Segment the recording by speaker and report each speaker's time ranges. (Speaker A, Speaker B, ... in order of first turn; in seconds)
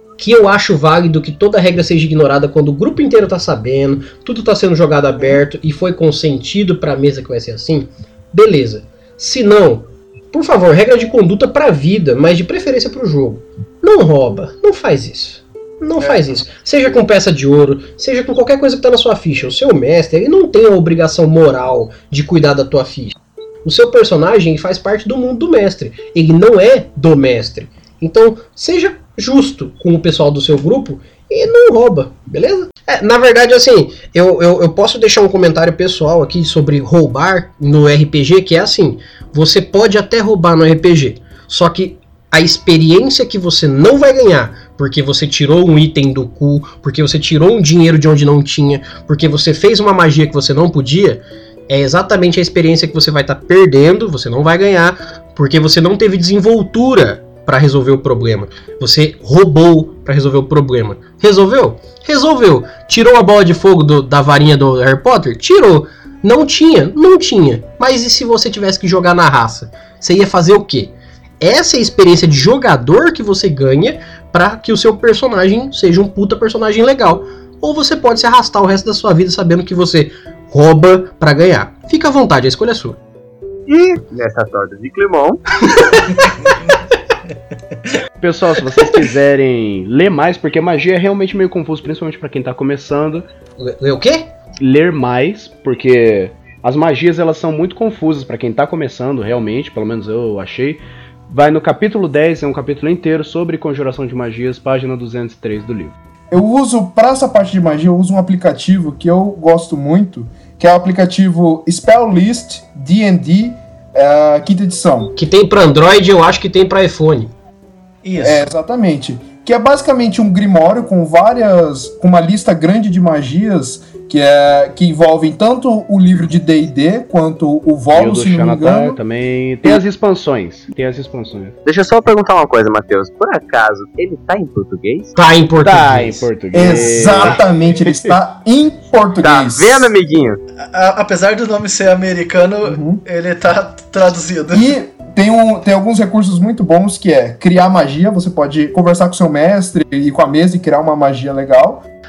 Speaker A: 0.2-83.0, 93.6-94.3, 115.2-117.3, 135.2-136.3
Speaker B: 16.0-16.4, 118.0-118.5, 140.6-144.7
Speaker C: 83.7-85.4, 131.7-135.1, 139.2-140.4
Speaker D: 88.2-93.3, 94.6-106.0, 127.9-131.6, 135.6-138.2
Speaker E: 106.3-115.1, 118.2-129.0, 136.5-139.9, 142.6-143.0, 144.5-151.8